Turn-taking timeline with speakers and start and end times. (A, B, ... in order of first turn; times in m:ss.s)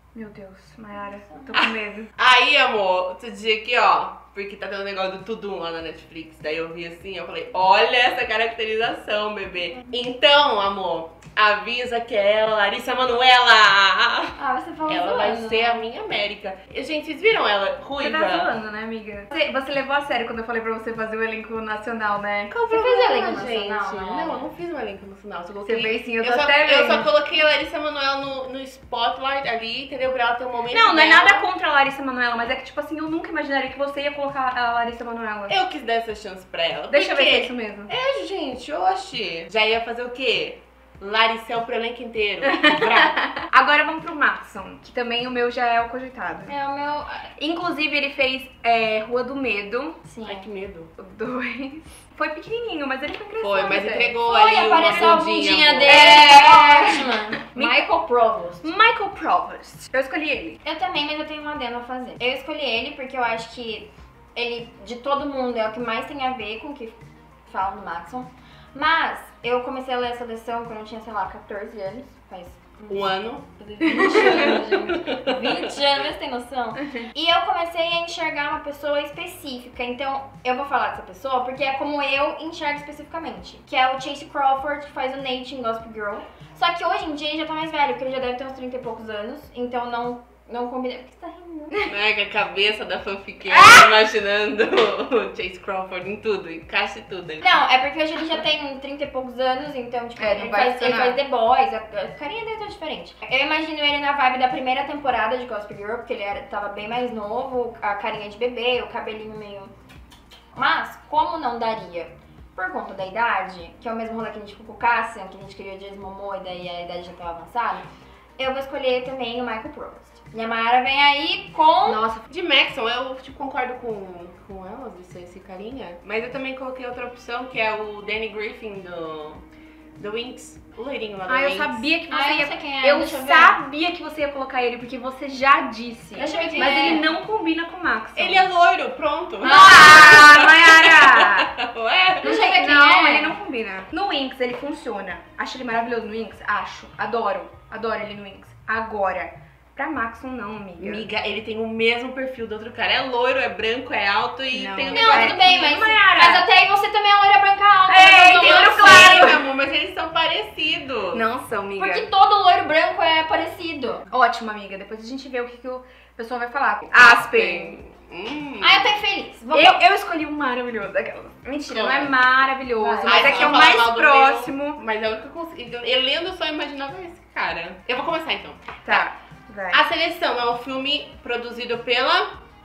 0:00.1-0:02.1 A
0:01.5-0:18.5 B
0:14.4-0:15.8 C
0:18.0-0:22.5 A
0:22.5-0:31.5 B
0:22.7-0:24.5 C
0:25.6-0:27.1 A
0:30.7-0:35.6 A
0:35.5-0:43.2 B
0:36.9-0:37.9 A
0:42.4-0:46.5 A
0:46.5-0:47.3 C
0:47.4-0:50.0 A
0:50.0-0:50.5 C
0:50.2-0:50.9 B
0:51.0-0:54.2 A
0:53.4-0:56.3 B
0:54.2-0:58.6 C
0:54.8-0:55.2 A
0:55.8-0:57.8 A
0:58.6-1:00.6 A
1:00.6-1:31.8 C
1:12.9-1:15.7 B
1:13.8-1:14.6 A
1:16.8-1:17.1 A
1:31.8-1:37.5 B
1:33.5-1:33.9 A
1:37.4-1:49.7 C
1:40.2-1:41.2 A
1:50.5-2:02.0 C
2:01.9-2:09.4 B
2:01.9-2:02.2 A
2:10.0-2:11.8 B
2:11.3-2:18.5 A
2:12.1-2:13.6 C
2:16.2-2:17.0 C
2:16.4-2:17.0 B
2:18.2-2:22.3 B
2:19.4-2:20.4 C
2:19.4-2:21.5 A
2:22.2-2:23.3 C
2:22.2-2:31.0 A
2:30.8-2:35.5 B
2:34.5-2:36.5 A
2:34.9-2:39.4 C
2:37.9-2:39.4 A
2:38.4-2:41.2 B
2:41.1-2:42.1 A
2:41.8-2:44.0 C
2:44.1-2:47.8 A
2:46.9-2:49.0 B
2:48.6-2:49.8 C
2:49.5-2:54.8 A
2:51.7-2:52.1 B
2:52.8-2:53.6 C
2:53.0-2:59.0 B
2:58.8-2:59.8 A
2:59.7-3:02.4 B